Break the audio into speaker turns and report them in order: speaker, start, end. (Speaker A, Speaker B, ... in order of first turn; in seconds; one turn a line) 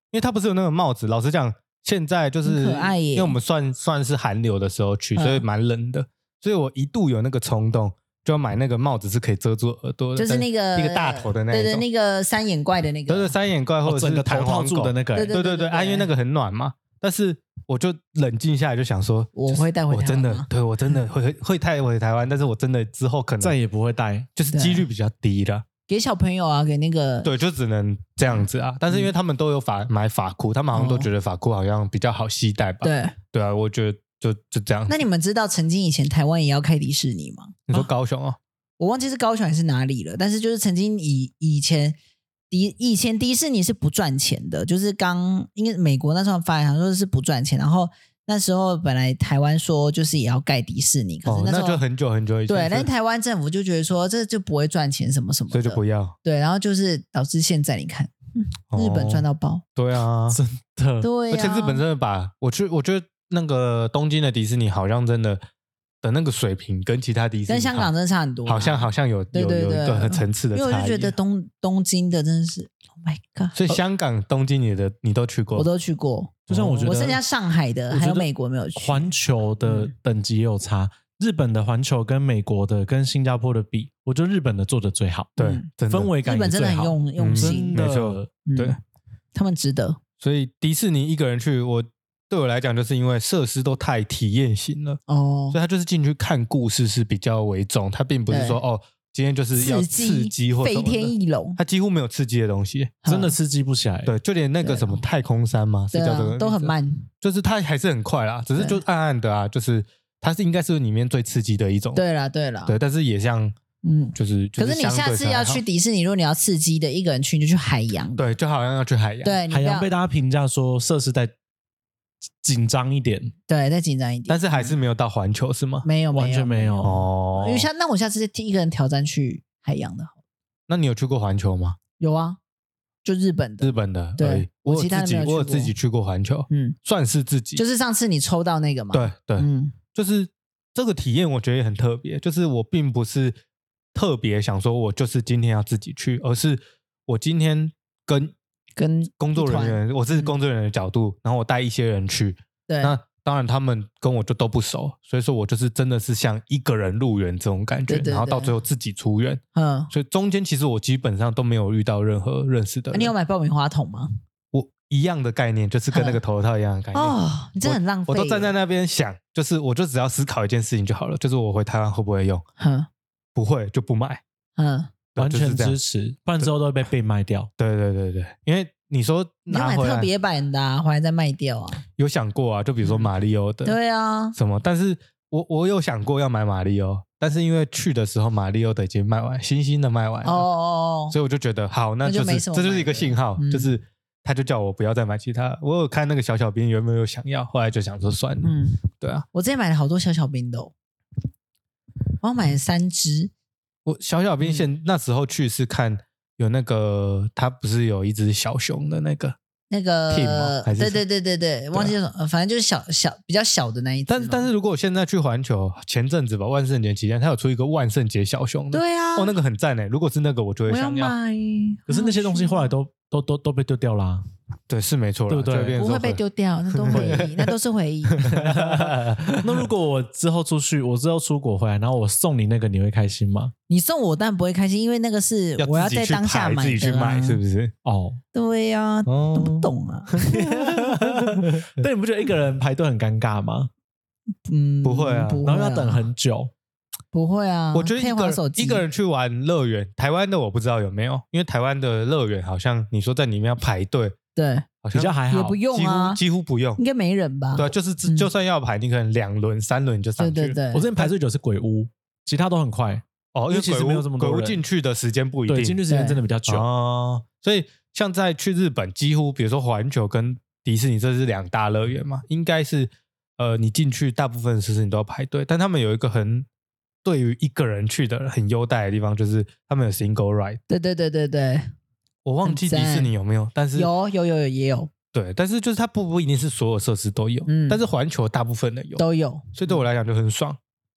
Speaker A: 0.1-11.8
Speaker B: 2.4-3.4
Speaker B: 5.2-5.4
Speaker B: 10.2-13.3
Speaker A: 13.1-23.6
Speaker C: 13.8-15.3
Speaker B: 15.1-16.1
Speaker B: 19.3-20.5
Speaker C: 23.4-24.3
Speaker A: 24.4-25.6
Speaker B: 24.5-24.9
Speaker B: 25.9-27.3
Speaker A: 27.2-35.0
Speaker B: 30.7-31.1
Speaker B: 32.8-33.1
Speaker B: 34.9-37.6
Speaker A: 37.7-38.4
Speaker B: 38.8-42.0
Speaker B: 42.5-51.8
Speaker A: 51.2-52.9
Speaker B: 52.5-59.6
Speaker A: 55.5-56.1
Speaker A: 58.7-59.2
Speaker A: 59.8-60.4
Speaker C: 60.3-61.1
Speaker B: 61.0-61.8
Speaker A: 61.3-65.4
Speaker A: 66.0-67.9
Speaker B: 67.5-73.7
Speaker A: 68.5-71.1
Speaker A: 73.5-75.7
Speaker B: 75.5-79.1
Speaker A: 76.5-76.9
Speaker C: 76.5-77.2
Speaker C: 77.9-85.3
Speaker B: 79.6-79.9
Speaker A: 85.4-86.1
Speaker B: 85.4-85.7
Speaker C: 85.9-88.3
Speaker B: 86.2-87.8
Speaker A: 87.2-88.8
Speaker B: 88.5-88.8
Speaker B: 89.3-90.0
Speaker A: 90.2-95.0
Speaker B: 95.1-95.6
Speaker A: 95.5-102.9
Speaker B: 98.3-98.6
Speaker B: 99.5-101.6
Speaker B: 103.0-103.3
Speaker C: 103.0-104.1
Speaker A: 104.0-112.0
Speaker B: 104.6-105.0
Speaker B: 105.9-107.1
Speaker B: 108.5-108.8
Speaker B: 111.9-112.8
Speaker A: 112.7-113.5
Speaker B: 113.8-118.3
Speaker A: 114.2-115.6
Speaker A: 118.2-119.4
Speaker B: 119.2-119.9
Speaker C: 119.5-121.3
Speaker C: 122.4-123.3
Speaker B: 123.5-124.8
Speaker A: 124.3-125.8
Speaker B: 125.8-130.1
Speaker C: 126.1-126.9
Speaker A: 126.8-127.7
Speaker A: 130.7-131.8
Speaker B: 132.0-132.4
Speaker B: 133.0-135.7
Speaker A: 133.6-137.6
Speaker B: 136.5-136.8
Speaker B: 137.6-139.8
Speaker A: 138.9-143.4
Speaker A: 143.9-148.3
Speaker B: 148.8-150.3
Speaker A: 149.2-163.1
Speaker B: 152.7-152.9
Speaker B: 157.9-158.6
Speaker B: 159.5-159.9
Speaker B: 162.9-164.1
Speaker A: 164.5-172.4
Speaker B: 165.9-166.2
Speaker B: 166.9-168.5
Speaker B: 172.6-172.9
Speaker A: 173.3-174.2
Speaker B: 174.6-174.9
Speaker A: 175.1-175.8
Speaker C: 175.2-177.5
Speaker A: 177.6-180.1
Speaker B: 179.5-181.8
Speaker A: 181.9-183.8
Speaker B: 183.6-184.3
Speaker A: 184.3-190.4
Speaker B: 190.2-191.2
Speaker A: 191.1-199.2
Speaker B: 192.0-193.7
Speaker B: 198.4-200.7
Speaker B: 202.2-203.3
Speaker A: 203.8-209.3
Speaker B: 209.7-214.5
Speaker A: 210.1-211.0
Speaker A: 214.1-221.1
Speaker B: 218.7-219.3
Speaker B: 220.7-222.7
Speaker C: 221.9-224.2
Speaker A: 224.7-226.2
Speaker C: 225.3-225.8
Speaker B: 225.7-228.2
Speaker A: 226.8-227.5
Speaker C: 226.9-227.3
Speaker A: 228.1-229.7
Speaker C: 228.3-233.5
Speaker B: 233.7-237.4
Speaker A: 235.6-237.7
Speaker C: 237.8-238.2
Speaker B: 238.3-240.2
Speaker A: 239.1-241.9
Speaker C: 240.3-243.7
Speaker B: 244.4-246.1
Speaker A: 244.8-245.4
Speaker C: 245.4-246.5
Speaker B: 247.1-248.8
Speaker A: 247.7-254.2
Speaker B: 254.3-254.7
Speaker A: 254.8-256.8
Speaker C: 254.9-255.6
Speaker B: 255.3-256.2
Speaker B: 256.8-258.3
Speaker A: 257.5-261.1
Speaker B: 260.2-260.9
Speaker C: 260.7-264.6
Speaker A: 263.3-265.8
Speaker C: 265.5-266.6
Speaker B: 265.9-266.2
Speaker A: 266.5-276.5
Speaker A: 277.0-280.6
Speaker B: 280.7-281.7
Speaker A: 282.2-283.9
Speaker B: 282.4-283.1
Speaker B: 283.7-284.9
Speaker A: 285.1-290.6
Speaker B: 287.4-287.8
Speaker B: 289.0-289.8